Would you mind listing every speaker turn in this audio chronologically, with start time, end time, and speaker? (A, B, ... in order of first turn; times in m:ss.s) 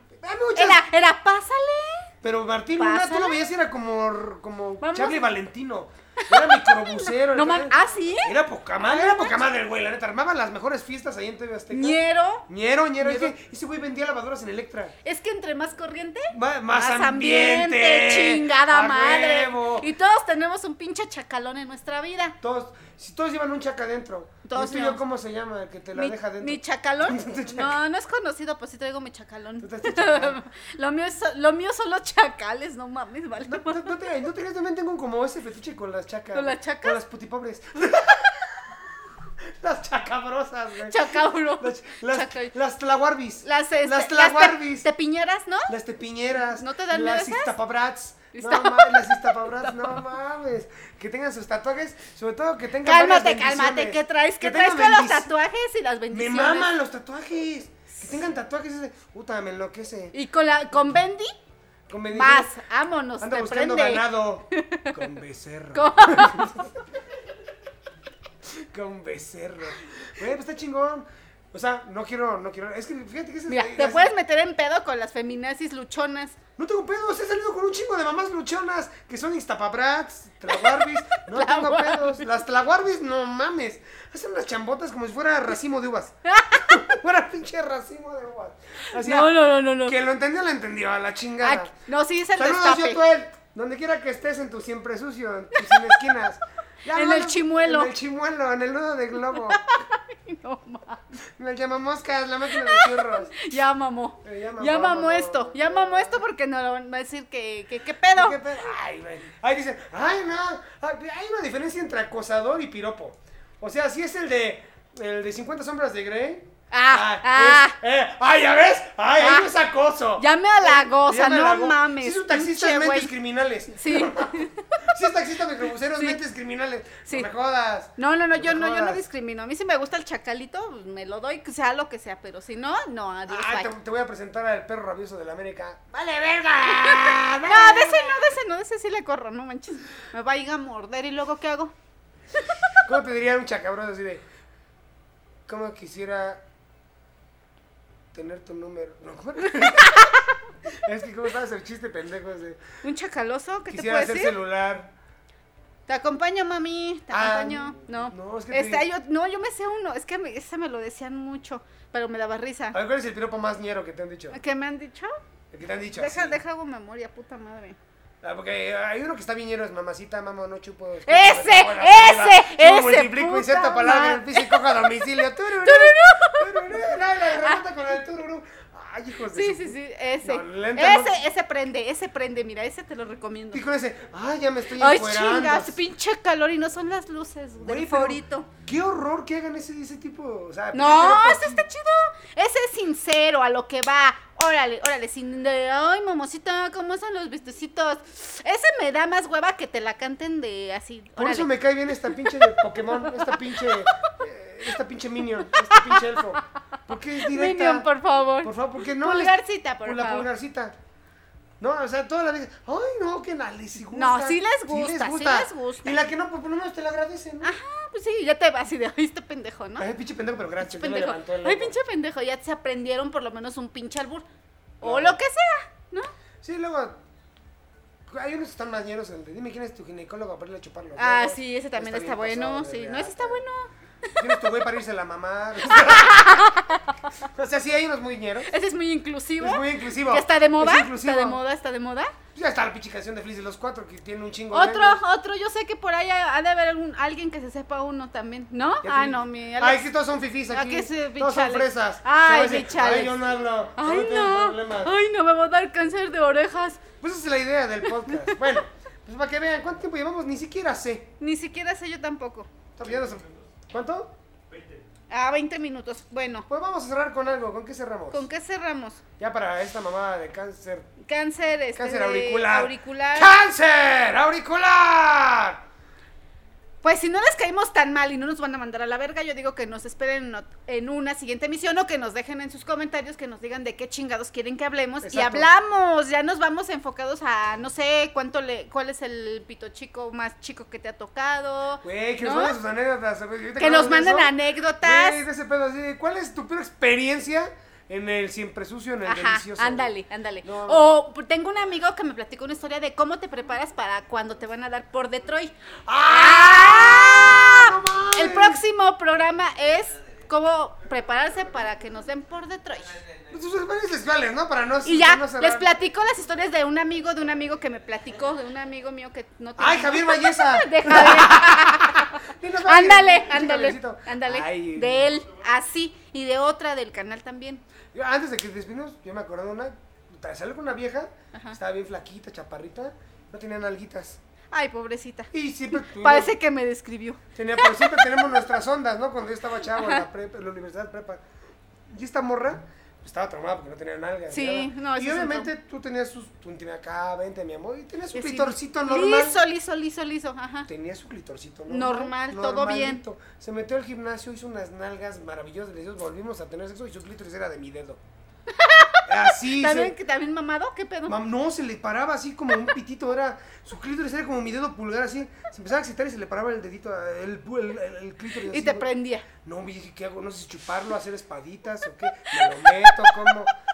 0:00.2-0:00.9 A
0:00.6-0:02.1 B
0:02.2-0:15.0 A
0:02.8-0:03.4 B
0:04.8-0:05.2 B
0:06.2-0:09.5 B
0:11.7-0:12.5 B
0:13.0-0:13.3 B
0:15.0-0:22.4 B
0:16.3-0:19.9 A
0:22.4-0:27.8 A
0:24.4-0:25.0 B
0:25.9-0:34.0 B
0:29.6-0:30.4 A
0:33.4-0:44.9 A
0:36.3-0:37.0 B
0:40.9-0:42.5 B
0:43.4-0:45.7 B
0:45.7-0:55.3 A
0:46.6-0:47.6 B
0:48.3-0:50.0 B
0:52.8-0:56.7 B
0:56.1-1:00.2 A
1:00.1-1:01.4 B
1:01.9-1:02.5 A
1:02.1-1:05.0 B
1:03.2-1:06.8 A
1:05.7-1:06.5 B
1:08.5-1:14.1 A
1:13.5-1:16.4 B
1:16.6-1:31.7 A
1:20.5-1:22.2 B
1:26.3-1:27.0 B
1:28.9-1:30.0 B
1:31.4-1:33.0 B
1:32.4-1:39.6 A
1:36.9-1:37.9 B
1:39.3-1:41.2 B
1:41.4-1:43.5 A
1:42.6-1:48.6 B
1:44.2-1:46.2 A
1:48.1-2:09.0 A
1:56.7-1:57.8 B
1:59.2-1:59.5 B
2:00.2-2:03.1 B
2:03.7-2:04.7 B
2:08.0-2:13.7 B
2:13.3-2:18.4 A
2:16.7-2:21.7 B
2:22.8-2:24.2 A
2:25.5-2:26.4 A
2:28.1-2:32.6 A
2:29.6-2:30.3 B
2:32.8-2:34.4 B
2:33.7-2:34.9 A
2:35.9-2:42.8 B
2:37.1-2:38.8 A
2:42.7-2:44.4 A
2:44.3-2:45.2 B
2:45.5-2:46.4 A
2:45.9-2:47.8 B
2:48.2-3:01.2 A
2:51.1-2:54.7 B
2:55.6-2:57.6 B
2:59.3-3:03.6 B
3:03.5-3:05.8 A
3:04.8-3:08.5 B
3:07.6-3:11.7 A
3:10.7-3:21.5 B
3:21.2-3:27.9 A
3:22.0-3:24.1 B
3:25.5-3:26.2 B
3:27.2-3:30.3 B
3:28.4-3:30.8 A
3:31.6-3:37.5 A
3:33.9-3:36.0 B
3:37.4-3:39.9 B
3:39.8-3:41.8 A
3:40.6-3:44.3 B
3:44.8-3:46.1 B
3:44.8-3:45.2 A
3:46.4-3:47.0 A
3:48.1-3:53.4 A
3:51.0-3:54.2 B
3:54.2-3:58.5 A
3:55.6-3:57.0 B
3:58.5-4:02.2 B
3:59.4-4:01.4 A
4:02.4-4:05.0 A
4:04.5-4:09.9 B
4:08.8-4:14.9 A
4:10.5-4:13.2 B
4:13.8-4:16.8 B
4:17.0-4:21.1 A
4:18.1-4:18.4 B
4:21.2-4:22.5 B
4:22.8-4:24.2 A
4:25.1-4:26.5 B
4:26.5-4:28.3 A
4:28.1-4:29.0 B
4:29.2-4:30.9 A
4:31.0-4:33.4 B
4:31.8-4:35.6 A
4:36.8-4:52.6 B
4:45.0-4:45.5 A
4:51.8-5:00.8 A
4:53.6-4:55.2 B
4:59.0-5:05.5 B
5:05.9-5:08.6 A
5:06.0-5:13.0 B
5:13.3-5:15.7 A
5:14.8-5:27.6 B
5:19.6-5:25.1 A
5:27.9-5:34.2 A
5:31.3-5:31.6 B
5:34.5-5:38.2 B
5:35.3-5:36.4 A
5:37.4-5:41.2 A
5:39.8-5:40.0 B
5:41.9-5:49.4 A
5:44.3-5:45.5 B
5:48.1-5:50.7 B
5:50.7-5:58.0 A
5:51.7-5:53.0 B
5:58.5-6:01.2 B
5:59.1-6:00.0 A
6:01.1-6:13.5 A
6:08.5-6:09.3 B
6:12.3-6:13.3 B